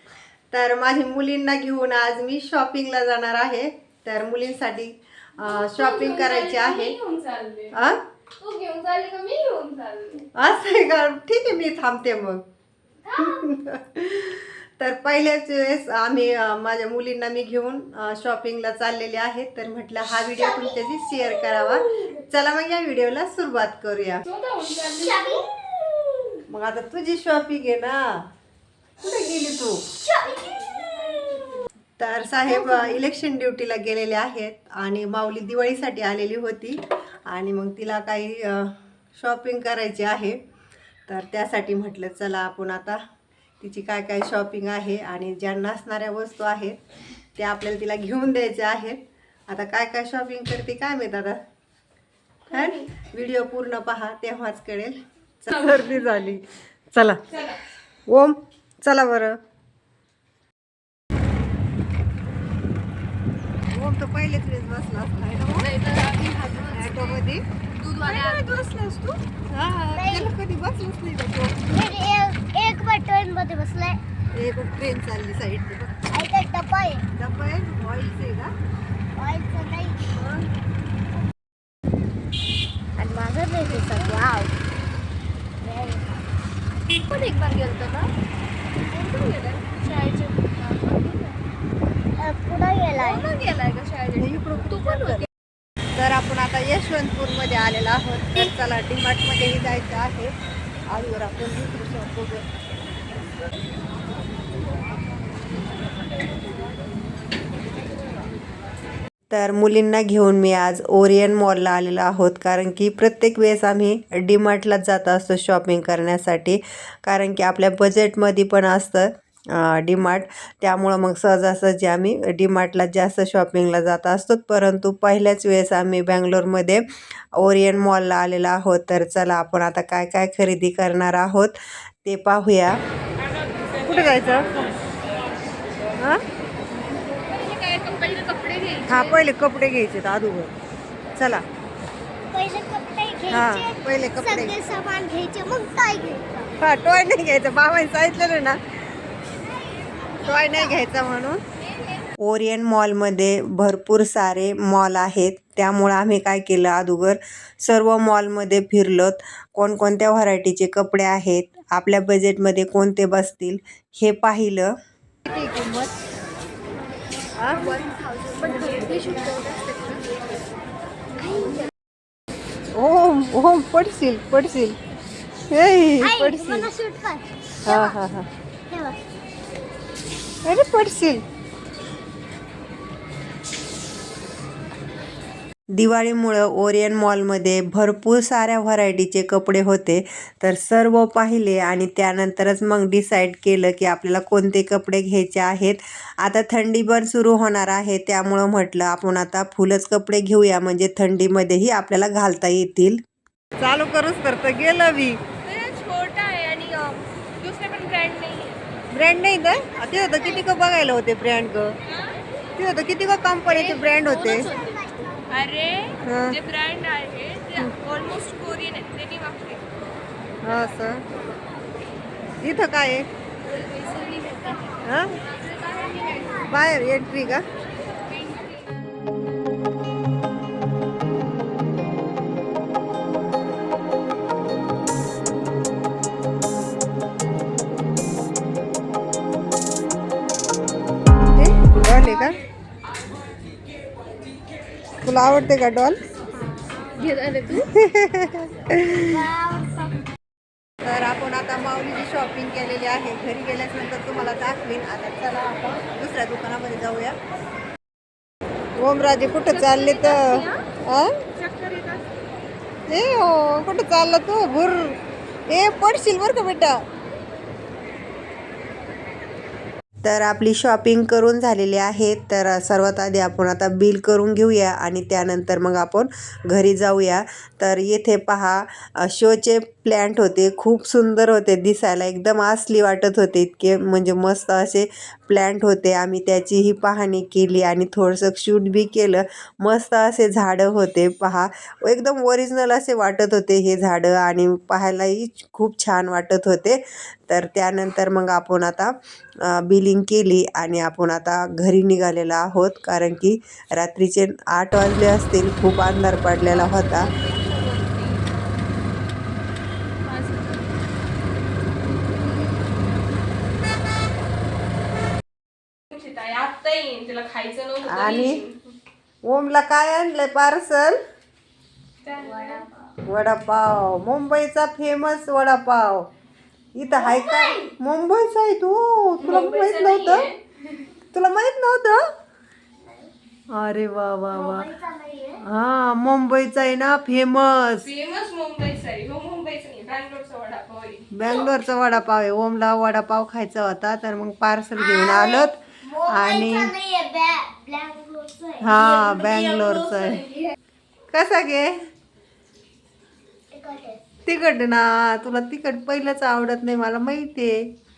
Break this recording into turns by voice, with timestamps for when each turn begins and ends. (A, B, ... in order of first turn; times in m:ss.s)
0:00.5-0:07.0 A
0:05.4-0:07.8 B
0:07.7-0:08.0 A
0:08.4-0:10.3 B
0:10.4-0:12.4 A
0:13.0-0:13.5 B
0:13.2-0:24.2 A
0:20.4-0:22.3 C
0:24.2-0:25.4 B
0:24.8-0:26.4 C
0:26.5-0:28.2 A
0:29.0-0:29.8 A
0:30.0-0:31.5 C
0:30.5-0:31.6 B
0:32.0-0:40.4 A
0:32.5-0:32.9 C
0:41.1-0:43.0 A
0:43.6-0:46.8 A
0:47.4-0:51.4 A
0:52.5-0:52.9 B
0:52.5-0:57.2 A
0:55.6-0:56.0 B
0:57.3-0:57.6 B
0:58.1-0:59.4 A
1:03.7-1:05.7 A
1:05.5-1:07.2 B
1:06.8-1:07.4 A
1:07.8-1:08.7 B
1:08.0-1:11.8 A
1:10.0-1:10.4 C
1:11.7-1:14.0 C
1:14.3-1:16.0 A
1:16.1-1:17.1 C
1:17.2-1:18.5 A
1:19.2-1:20.0 C
1:23.0-1:24.6 C
1:25.6-1:26.3 C
1:26.9-1:28.1 B
1:28.9-1:31.4 B
1:32.2-1:33.3 C
1:33.0-1:35.3 B
1:34.2-1:35.3 A
1:36.0-1:40.4 A
1:40.9-1:42.5 A
1:45.9-1:46.6 B
1:49.3-2:06.8 A
2:07.4-2:12.8 A
2:13.8-2:14.8 A
2:17.1-2:19.2 B
2:18.9-2:20.5 A
2:21.2-2:21.4 A
2:22.3-2:26.5 C
2:23.3-2:24.6 A
2:26.6-2:28.6 A
2:29.4-2:30.9 C
2:30.2-2:31.4 A
2:31.7-2:32.1 C
2:32.2-2:44.7 A
2:45.2-2:45.9 A
2:47.4-2:47.7 A
2:47.6-2:50.2 C
2:51.2-2:51.7 C
2:52.7-2:54.8 A
2:55.5-2:56.7 A
2:56.0-2:58.0 C
2:57.6-2:58.3 A
2:58.7-2:59.0 C
3:00.4-3:01.2 A
3:05.7-3:23.0 A
3:23.6-3:25.2 A
3:25.4-3:28.6 B
3:28.9-3:31.8 A
3:29.6-3:30.5 C
3:31.9-3:32.2 B
3:32.6-3:34.5 A
3:33.5-3:39.8 B
3:34.3-3:35.2 C
3:36.0-3:36.4 A
3:40.4-3:41.0 A
3:42.4-3:43.1 A
3:43.4-3:46.5 B
3:44.8-3:45.2 A
3:46.4-3:47.4 A
3:47.8-3:48.6 B
4:01.3-4:02.4 A
4:05.0-4:06.0 A
4:06.9-4:07.7 B
4:07.5-4:09.3 A
4:08.9-4:09.9 C
4:10.8-4:17.2 A
4:18.8-4:21.2 A
4:19.4-4:20.6 B
4:21.4-4:22.1 B
4:22.9-4:26.8 A
4:30.0-4:58.9 A
4:59.5-5:07.1 A
5:06.5-5:08.3 B
5:10.0-5:10.8 B
5:15.9-5:18.7 B
5:17.9-5:18.4 A
5:19.2-5:21.0 A
5:22.0-5:22.7 B
5:22.2-5:22.8 C
5:23.1-5:26.1 A
5:26.8-5:30.3 A
5:26.9-5:27.7 C
5:29.2-5:30.9 B
5:31.1-5:32.0 A
5:32.8-5:33.1 C
5:33.5-5:34.7 A
5:34.3-5:35.4 C
5:35.4-5:37.9 A
5:37.8-5:41.1 B
5:41.1-5:46.7 A
5:44.8-5:48.7 C
5:48.6-5:50.2 A
5:48.7-5:50.5 B
5:51.1-5:51.8 A
5:53.5-5:54.0 C
5:54.3-5:57.6 A